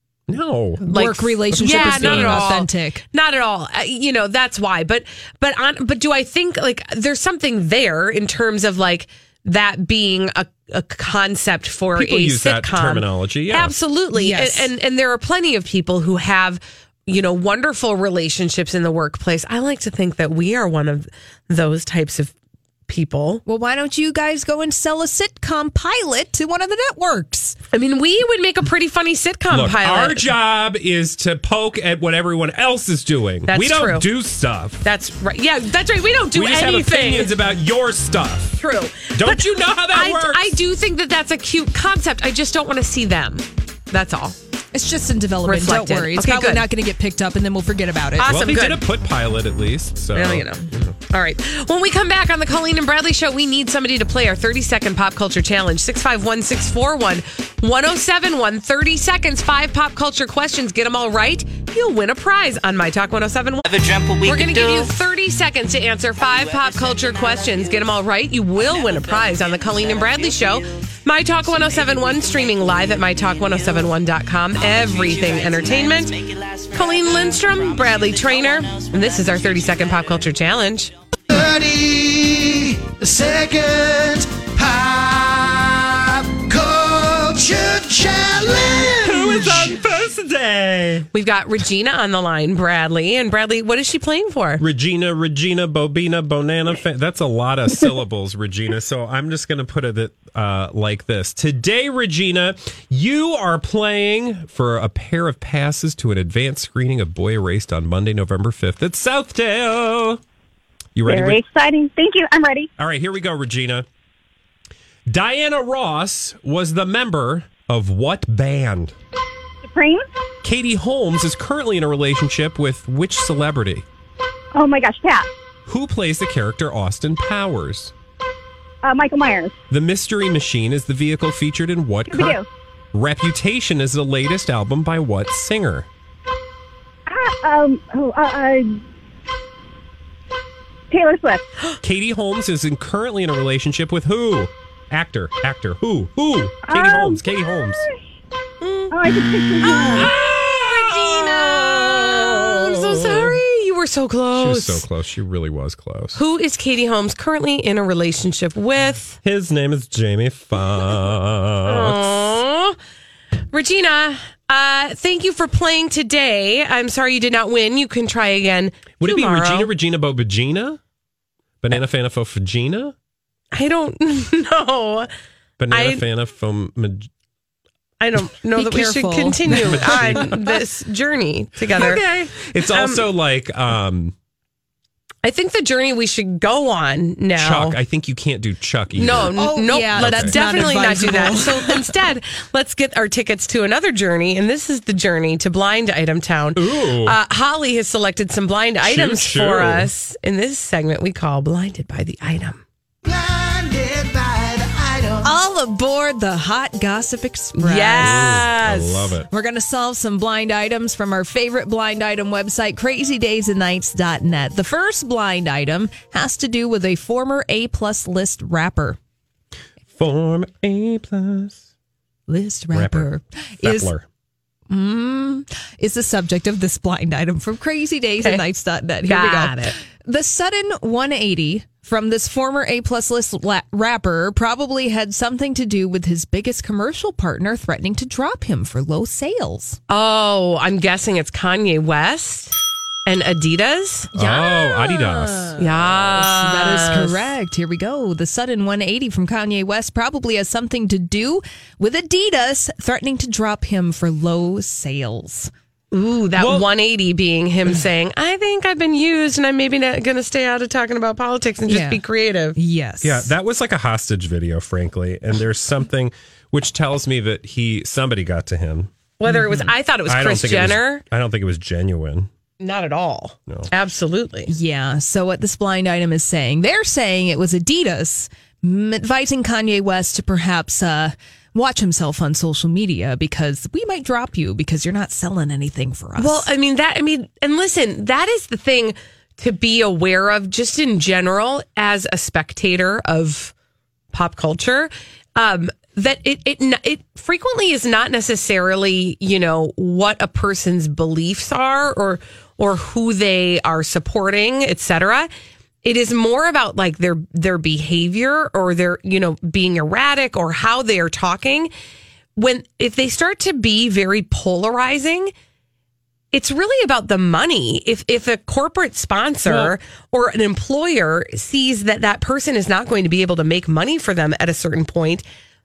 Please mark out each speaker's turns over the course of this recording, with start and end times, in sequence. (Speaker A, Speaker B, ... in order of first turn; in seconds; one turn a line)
Speaker A: 0.3-0.9
Speaker B: 0.8-3.0
Speaker C: 0.9-22.3
Speaker A: 1.5-2.6
Speaker A: 11.9-13.7
Speaker B: 14.1-14.7
Speaker C: 22.9-23.4
Speaker B: 23.4-27.6
Speaker C: 27.7-30.2
Speaker A: 29.5-34.8
Speaker C: 33.5-34.1
Speaker C: 34.8-37.3
Speaker A: 36.3-38.6
Speaker C: 38.5-44.4
Speaker A: 39.1-40.5
Speaker B: 44.7-48.3
Speaker C: 45.4-46.6
Speaker C: 48.2-48.8
Speaker A: 48.2-51.0
Speaker C: 50.1-80.9
Speaker D: 81.3-89.8
Speaker A: 89.0-91.1
Speaker C: 91.1-94.6
Speaker A: 94.6-110.2
Speaker A: 111.0-111.4
Speaker E: 111.0-112.7
Speaker A: 112.8-113.8
Speaker A: 115.1-118.9
Speaker E: 119.6-120.1
Speaker A: 120.4-123.8
Speaker E: 124.5-125.3
Speaker A: 125.7-127.9
Speaker E: 128.8-129.5
Speaker A: 129.7-132.4
Speaker E: 132.1-132.4
Speaker A: 132.9-135.9
Speaker E: 137.1-138.8
Speaker E: 140.9-141.4
Speaker A: 141.8-147.8
Speaker E: 146.6-147.9
Speaker C: 148.6-148.9
Speaker E: 148.9-150.1
Speaker C: 149.6-154.8
Speaker A: 149.7-153.4
Speaker A: 154.3-156.2
Speaker C: 156.2-159.2
Speaker A: 159.2-162.1
Speaker C: 161.6-162.8
Speaker C: 163.5-169.7
Speaker A: 169.0-170.8
Speaker A: 171.6-172.9
Speaker C: 173.5-175.1
Speaker A: 175.6-177.1
Speaker C: 175.7-176.0
Speaker C: 178.0-183.0
Speaker B: 178.6-180.3
Speaker A: 179.5-180.6
Speaker A: 181.7-184.1
Speaker C: 185.2-187.8
Speaker A: 187.3-190.7
Speaker C: 188.9-202.6
Speaker B: 189.2-191.8
Speaker A: 196.5-197.2
Speaker A: 198.8-199.9
Speaker D: 203.0-205.3
Speaker B: 205.2-208.4
Speaker C: 207.6-209.2
Speaker A: 208.0-209.3
Speaker B: 209.3-219.0
Speaker A: 219.9-221.6
Speaker B: 222.3-223.9
Speaker A: 222.7-223.1
Speaker A: 223.6-224.0
Speaker B: 224.7-239.8
Speaker C: 229.1-229.7
Speaker C: 239.9-242.5
Speaker C: 243.1-244.1
Speaker A: 244.1-245.6
Speaker B: 244.1-255.5
Speaker C: 245.6-247.3
Speaker C: 255.9-262.6
Speaker A: 256.4-256.7
Speaker B: 261.7-262.0
Speaker B: 262.6-263.3
Speaker A: 263.0-268.9
Speaker C: 269.2-271.0
Speaker B: 269.3-269.7
Speaker A: 270.1-272.3
Speaker C: 272.6-274.5
Speaker B: 274.5-286.5
Speaker C: 286.2-293.5
Speaker C: 294.1-305.3
Speaker C: 305.8-311.7
Speaker C: 312.4-315.3
Speaker C: 316.3-325.2
Speaker A: 319.5-319.7